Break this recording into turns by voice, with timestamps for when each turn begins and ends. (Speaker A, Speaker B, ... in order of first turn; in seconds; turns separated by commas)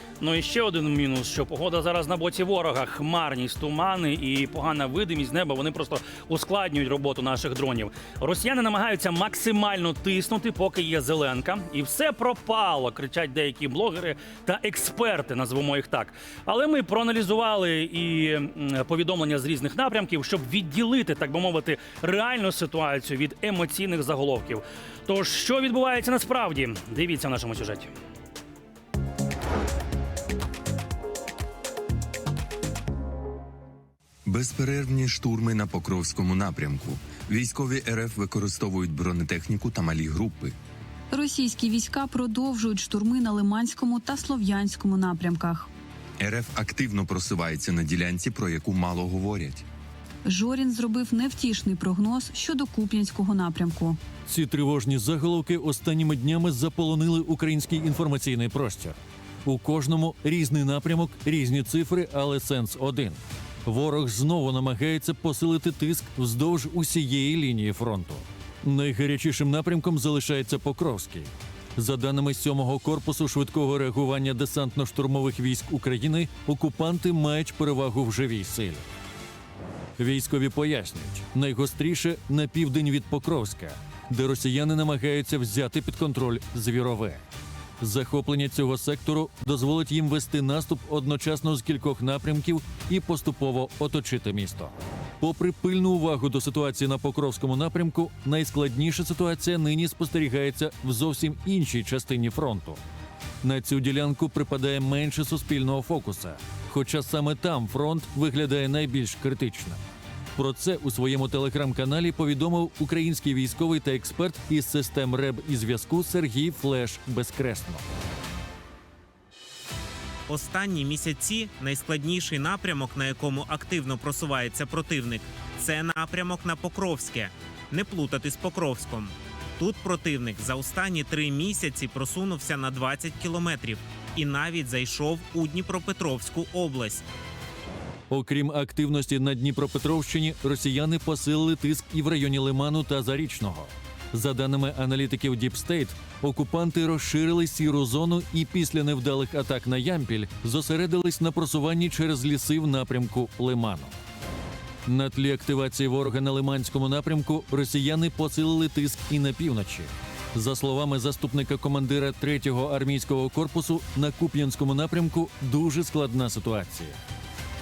Speaker A: 0.2-27.9, Speaker B: 34.2-40.5, Speaker C: 41.1-45.7, Speaker B: 46.2-49.6, Speaker C: 50.2-54.0, Speaker D: 54.3-78.8, Speaker D: 80.0-87.2, Speaker D: 87.8-102.8, Speaker D: 103.4-109.8, Speaker D: 110.3-117.8, Speaker E: 120.3-137.1, Speaker D: 138.1-153.9, Speaker D: 154.9-167.0